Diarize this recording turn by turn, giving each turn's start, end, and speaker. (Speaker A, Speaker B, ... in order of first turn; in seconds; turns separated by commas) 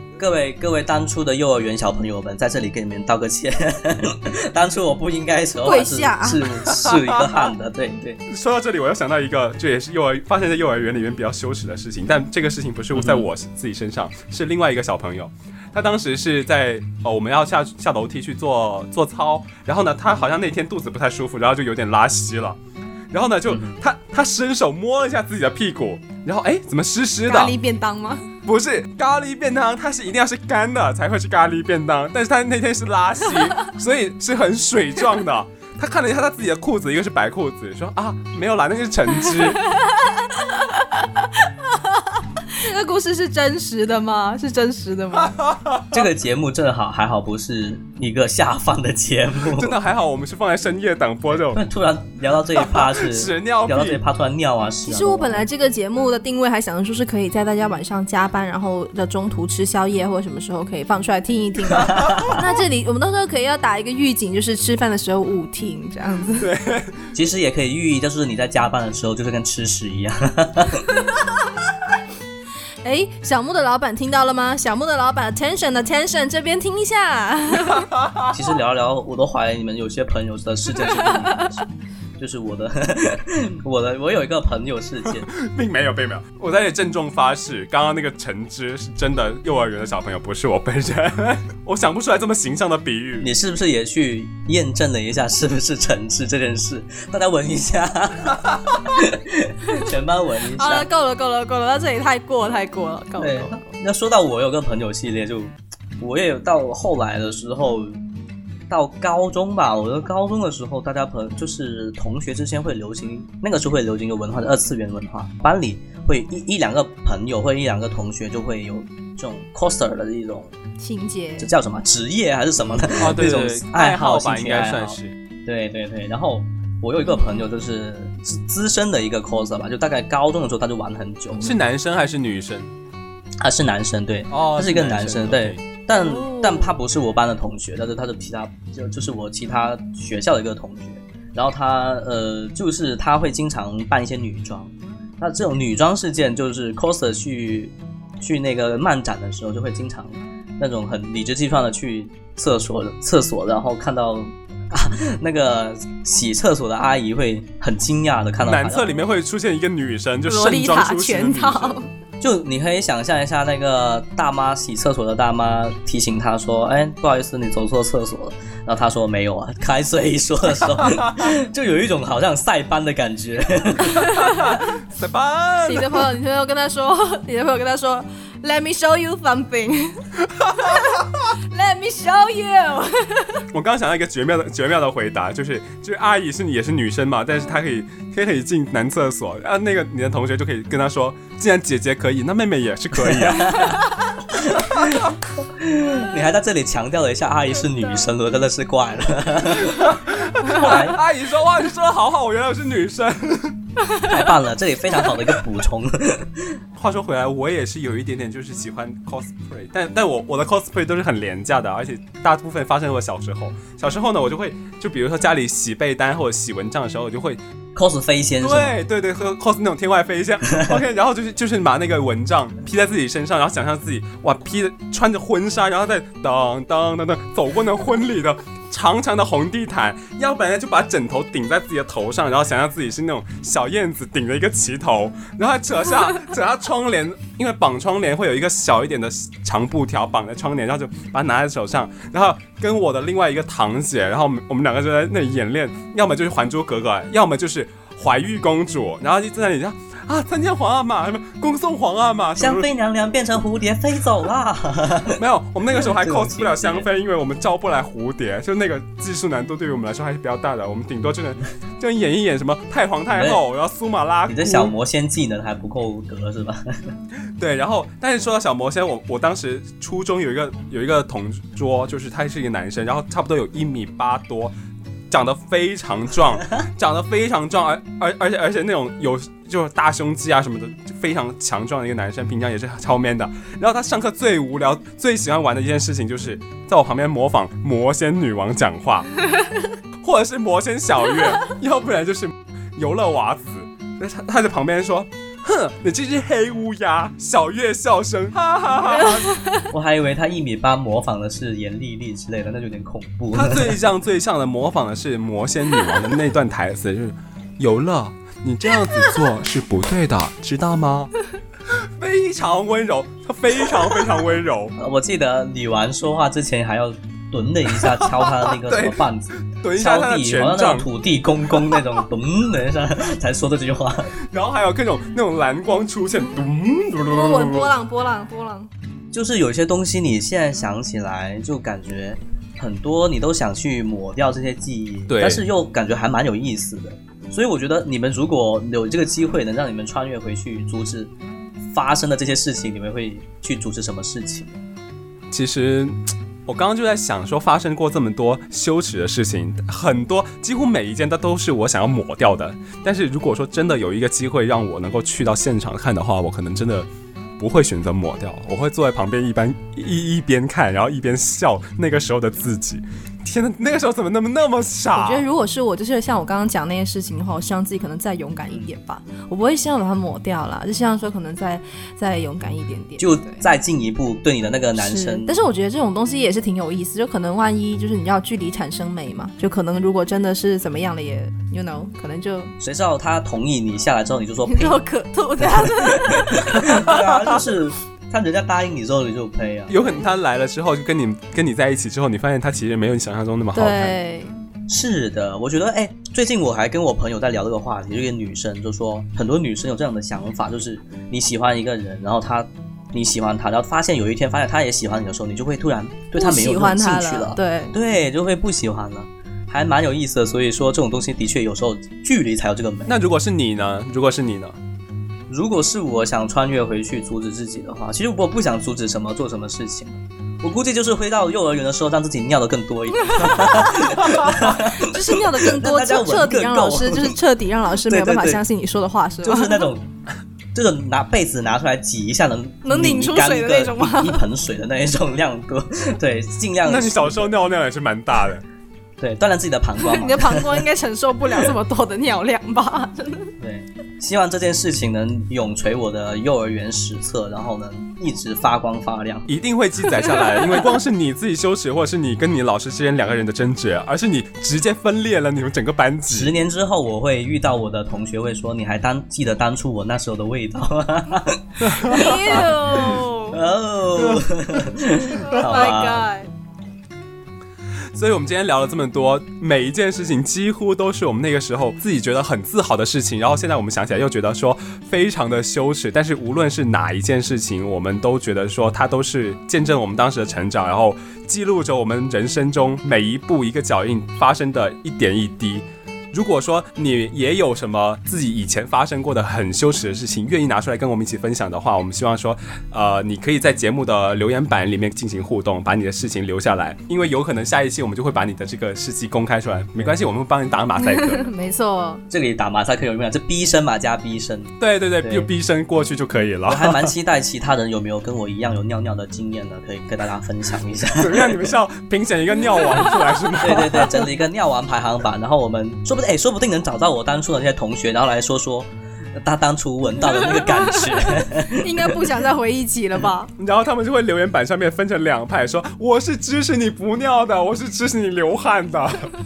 Speaker A: 0.2-8.2, Speaker B: 5.6-6.4, Speaker C: 6.7-7.1, Speaker C: 8.3-22.6, Speaker A: 12.9-13.2, Speaker C: 23.1-27.6, Speaker A: 23.5-23.8, Speaker B: 27.3-28.2, Speaker C: 28.4-39.6, Speaker B: 40.4-45.3, Speaker C: 45.2-46.0, Speaker A: 45.9-49.7, Speaker C: 49.5-51.6, Speaker A: 51.5-55.5, Speaker C: 52.5-54.0, Speaker B: 54.9-66.5, Speaker A: 61.8-62.4, Speaker C: 66.4-67.0, Speaker A: 67.1-70.8, Speaker B: 72.8-77.8, Speaker C: 77.8-78.3, Speaker A: 78.3-81.7, Speaker B: 81.0-81.5, Speaker A: 82.2-85.3, Speaker C: 85.1-93.3, Speaker A: 93.2-100.9, Speaker B: 100.5-103.7, Speaker A: 103.2-108.0, Speaker A: 108.7-120.5, Speaker B: 120.8-121.5, Speaker A: 121.4-131.6, Speaker C: 122.9-125.1, Speaker C: 131.4-132.7, Speaker A: 133.4-158.9, Speaker C: 134.3-135.6, Speaker B: 135.9-136.8, Speaker C: 158.4-161.8, Speaker B: 160.3-161.9, Speaker A: 162.2-174.0, Speaker C: 174.0-176.0, Speaker B: 175.6-180.0, Speaker C: 180.3-181.1, Speaker B: 180.6-183.4, Speaker C: 183.5-193.8, Speaker A: 193.0-201.0, Speaker C: 199.7-203.6, Speaker A: 204.0-206.6, Speaker C: 206.8-217.4, Speaker A: 217.7-218.8, Speaker C: 218.4-252.7, Speaker A: 252.4-255.2, Speaker C: 255.2-264.7, Speaker A: 255.7-256.9, Speaker A: 263.1-263.4, Speaker A: 264.3-266.9, Speaker C: 267.4-274.5, Speaker C: 275.1-289.1, Speaker C: 290.0-299.4, Speaker B: 299.0-299.6, Speaker A: 299.7-303.8, Speaker C: 303.3-311.1, Speaker C: 312.0-314.7, Speaker A: 314.8-324.1, Speaker C: 317.9-320.9, Speaker C: 324.3-327.7, Speaker B: 327.1-328.7, Speaker A: 329.1-341.1, Speaker C: 335.1-335.4, Speaker A: 341.7-344.6, Speaker C: 345.3-345.9, Speaker C: 346.5-356.9, Speaker C: 357.4-365.2, Speaker B: 364.9-373.4, Speaker A: 373.0-375.4, Speaker B: 374.8-382.5, Speaker A: 382.6-384.8, Speaker B: 384.4-386.7, Speaker A: 385.4-389.7, Speaker C: 389.7-393.9, Speaker B: 393.5-394.3, Speaker A: 394.7-412.9, Speaker B: 406.1-407.7, Speaker C: 412.9-414.6, Speaker A: 415.3-427.1, Speaker B: 423.1-429.6, Speaker A: 427.8-428.4, Speaker A: 429.2-429.9, Speaker A: 430.5-437.4, Speaker B: 432.6-434.2, Speaker C: 436.6-438.4, Speaker A: 439.0-440.6, Speaker B: 439.8-443.3, Speaker A: 443.4-449.3, Speaker C: 449.3-456.3, Speaker A: 456.1-466.1, Speaker C: 461.6-462.1, Speaker B: 461.9-463.4, Speaker B: 465.0-466.3, Speaker C: 467.9-501.3, Speaker B: 500.8-502.0, Speaker A: 502.1-505.3, Speaker C: 504.6-506.9, Speaker A: 506.4-511.5, Speaker C: 511.0-514.1, Speaker A: 513.4-521.9, Speaker B: 520.0-523.3, Speaker C: 523.4-529.1